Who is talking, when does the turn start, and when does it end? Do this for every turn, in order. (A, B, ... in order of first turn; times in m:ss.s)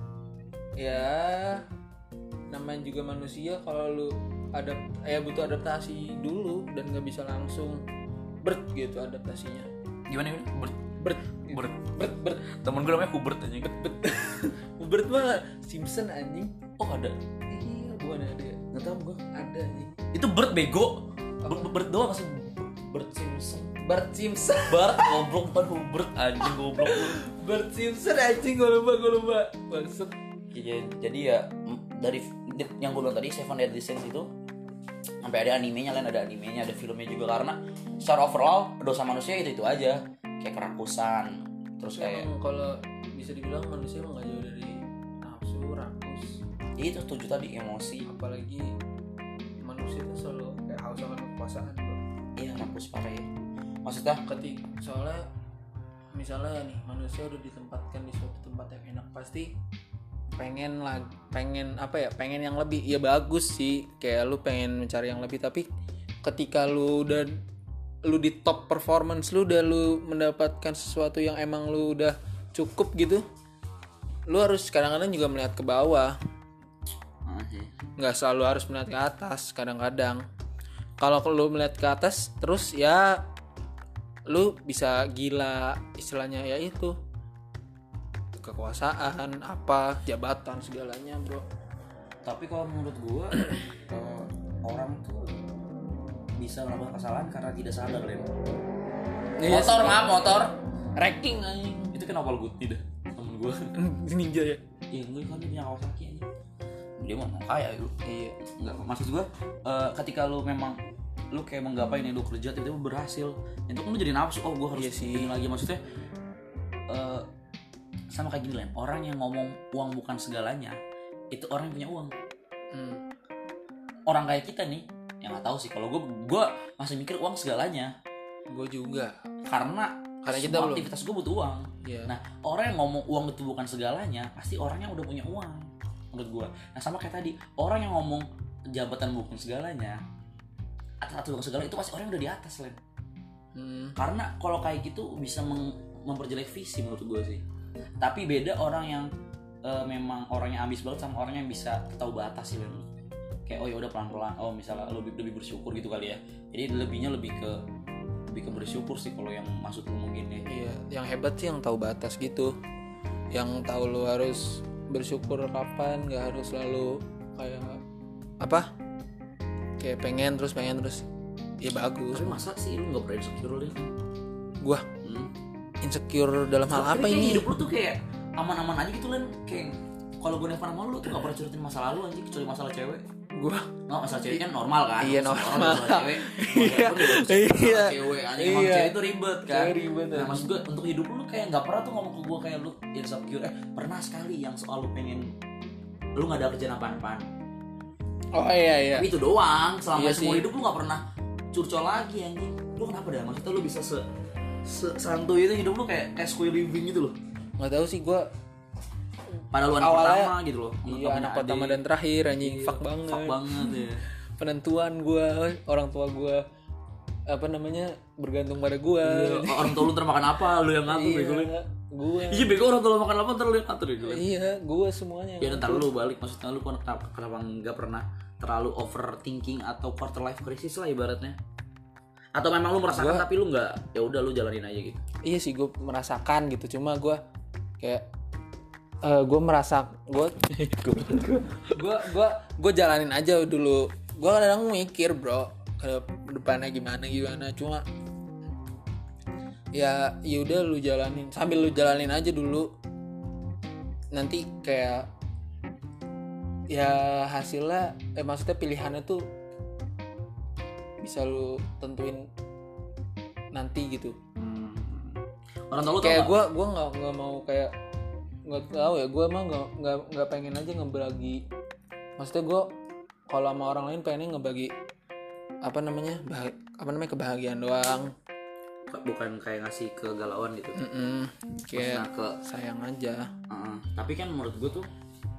0:00.8-0:01.6 A
0:02.5-0:07.8 A
0:08.4-0:09.7 A
0:10.1-0:10.9 B
0:11.0-0:12.5 A
0:11.5-0:13.8 B
0:13.6-0:16.6 A
0:16.8-0:17.2 B
0:17.5-0:18.6 A
0:18.7-0:19.2 B
0:19.3-0:19.9 A
0:20.1-0:23.8 B
0:21.4-0:21.8 A
0:23.8-0:25.3 A
0:24.7-0:27.2 B
0:26.4-0:30.1 A
0:30.5-0:34.3 B
0:35.2-0:42.3 B
0:41.9-0:46.4 A
0:46.8-0:48.1 B
0:48.0-0:48.7 A
0:49.6-0:52.0 A
0:52.4-0:53.3 B
0:53.8-0:54.2 B
0:54.2-0:55.2 A
0:56.1-0:59.5 A
1:00.4-1:05.7 A
1:06.2-1:07.4 A
1:08.0-1:13.2 A
1:14.3-1:16.2 A
1:17.2-1:17.8 B
1:18.0-1:20.2 A
1:21.0-1:23.2 A
1:24.3-1:27.0 A
1:28.4-1:31.4 A
1:32.2-1:35.4 B
1:36.4-1:38.3 B
1:39.4-1:40.4 A
1:39.5-1:40.6 B
1:41.0-1:42.0 A
1:41.9-1:43.7 B
1:43.8-1:44.6 A
1:44.9-1:46.2 B
1:47.0-1:50.8 B
1:48.0-1:48.4 A
1:51.3-1:55.8 B
1:54.7-1:55.4 A
1:56.9-1:57.3 B
1:58.1-2:00.8 B
2:01.3-2:02.1 B
2:02.7-2:03.0 A
2:04.1-2:07.9 B
2:08.5-2:09.1 A
2:09.5-2:20.0 B
2:10.2-2:10.9 A
2:11.8-2:12.1 A
2:21.0-2:22.8 B
2:23.6-2:24.0 A
2:24.0-2:27.4 B
2:28.0-2:29.1 B
2:29.6-2:32.8 B
2:33.5-2:37.6 B
2:38.3-2:40.4 B
2:40.4-2:42.5 A
2:43.3-2:47.8 A
2:48.4-2:48.7 A
2:49.8-2:51.1 A
2:51.6-2:52.4 A
2:52.1-2:53.9 B
2:54.6-2:54.9 A
2:55.0-2:55.3 B
2:55.8-2:57.5 A
2:56.7-3:03.0 B
3:03.4-3:04.4 A
3:03.9-3:15.3 B
3:05.0-3:10.5 A
3:16.2-3:17.2 B
3:18.4-3:19.1 A
3:19.0-3:24.1 B
3:19.9-3:20.5 A
3:24.6-3:27.2 B
3:27.6-3:28.3 A
3:29.5-3:31.8 B
3:29.8-3:30.4 A
3:30.9-3:33.8 A
3:32.4-3:34.0 B
3:34.4-3:36.4 A
3:37.3-3:40.0 A
3:39.0-3:41.5 B
3:40.9-3:42.6 A
3:42.3-3:44.2 B
3:44.0-3:45.9 A
3:45.4-3:51.4 B
3:52.4-3:55.0 B
3:52.9-3:53.3 A
3:55.2-3:57.2 A
3:57.8-3:58.1 A
3:59.0-4:00.5 A
4:00.5-4:01.8 B
4:01.7-4:07.8 A
4:09.8-4:12.7 A
4:14.1-4:15.1 A
4:16.7-4:19.3 A
4:21.0-4:22.3 A
4:23.5-4:24.2 A
4:24.4-4:26.4 B
4:25.8-4:27.7 A
4:28.5-4:31.4 A
4:32.2-4:32.7 A
4:33.3-4:34.7 A
4:35.6-4:38.1 A
4:38.9-4:40.8 B
4:40.8-4:43.3 A
4:41.7-4:42.4 B
4:43.5-4:44.9 B